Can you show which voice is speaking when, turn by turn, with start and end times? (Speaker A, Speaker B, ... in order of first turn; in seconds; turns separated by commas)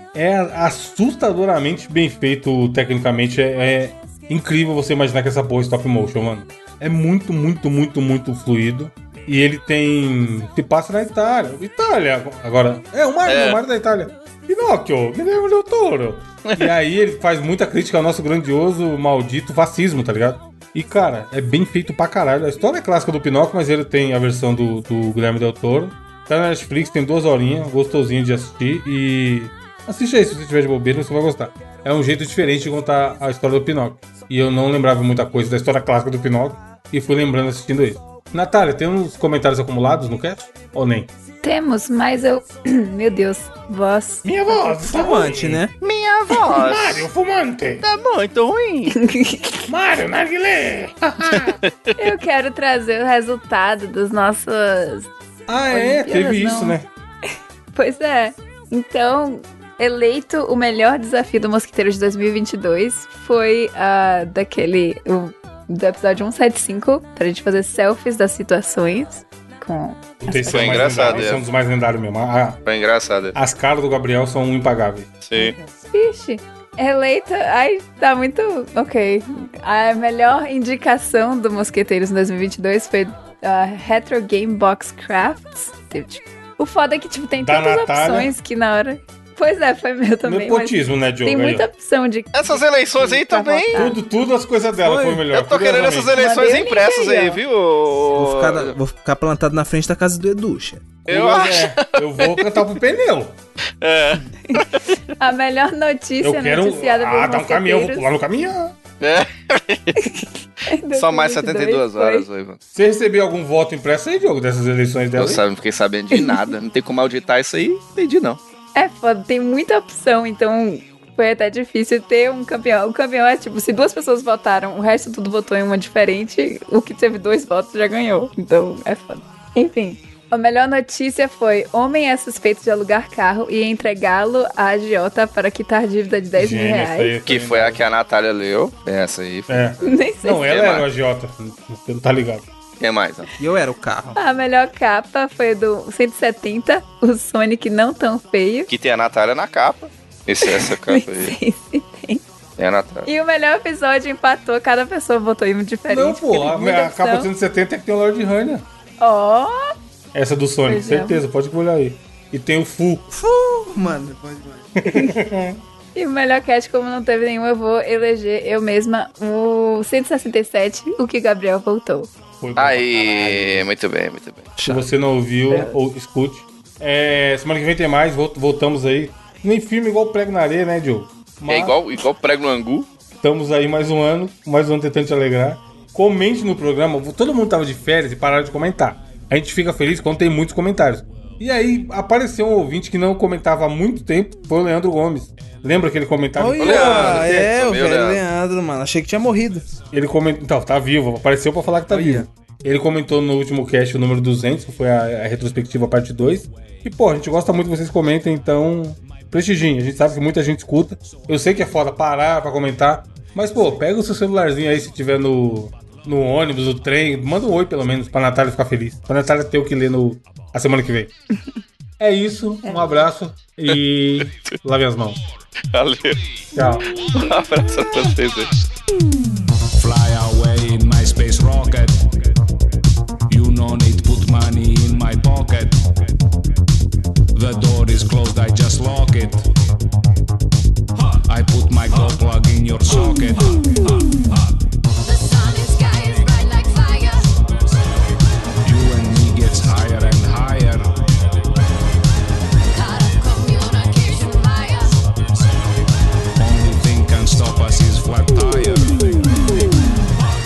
Speaker A: 0.1-41.1, Speaker B: 13.2-13.6, Speaker B: 16.4-16.7, Speaker C: 41.4-44.7, Speaker A: 44.2-45.6, Speaker D: 44.9-45.7, Speaker B: 45.8-47.0, Speaker A: 46.3-47.8, Speaker B: 47.8-49.0, Speaker C: 48.9-49.7, Speaker A: 49.7-51.6, Speaker B: 51.4-51.9, Speaker C: 52.0-55.1, Speaker A: 55.5-56.9, Speaker C: 55.7-56.8, Speaker C: 57.7-71.4, Speaker A: 70.2-72.6, Speaker B: 70.5-71.4, Speaker B: 72.6-73.3, Speaker A: 73.3-75.2, Speaker B: 75.2-75.5, Speaker C: 75.3-94.0, Speaker A: 87.4-88.3, Speaker A: 90.2-91.7, Speaker B: 92.3-93.8, Speaker A: 93.7-96.1, Speaker D: 94.8-95.3, Speaker B: 95.3-98.7, Speaker C: 96.1-97.4, Speaker D: 98.1-100.9, Speaker B: 101.1-102.6, Speaker A: 101.1-103.4, Speaker B: 103.8-105.0, Speaker C: 104.5-108.1, Speaker A: 106.2-108.8, Speaker B: 109.0-110.0, Speaker C: 110.0-112.2, Speaker B: 110.9-112.6, Speaker A: 112.7-115.4, Speaker B: 115.2-118.4, Speaker C: 116.1-116.4, Speaker C: 118.7-137.2, Speaker A: 136.3-137.8, Speaker B: 137.2-140.8, Speaker A: 139.5-142.5, Speaker C: 139.8-140.4, Speaker B: 142.8-143.3, Speaker D: 143.4-144.2, Speaker C: 144.2-148.7, Speaker B: 148.7-151.3, Speaker C: 150.4-152.2, Speaker B: 152.6-153.1, Speaker C: 153.0-157.3, Speaker A: 155.9-158.7, Speaker C: 159.0-159.7, Speaker A: 160.1-163.0, Speaker C: 160.7-161.2, Speaker D: 163.1-164.7, Speaker A: 164.8-165.6, Speaker C: 164.9-165.1, Speaker C: 165.9-172.1, Speaker A: 172.4-173.7, Speaker B: 172.6-174.7, Speaker D: 174.6-174.8, Speaker A: 174.7-181.8, Speaker B: 181.5-182.9, Speaker A: 183.2-197.5, Speaker D: 196.3-199.7, Speaker B: 196.6-198.2, Speaker A: 199.9-221.1, Speaker D: 201.9-202.3, Speaker A: 222.0-225.2, Speaker C: 222.7-223.0, Speaker B: 225.7-226.2, Speaker A: 226.5-226.9, Speaker B: 227.0-228.5, Speaker E: 229.8-232.2, Speaker E: 233.3-235.8, Speaker E: 237.3-239.4, Speaker E: 241.2-243.9, Speaker F: 245.0-247.3, Speaker E: 248.6-250.9, Speaker F: 252.7-255.0, Speaker E: 256.4-259.5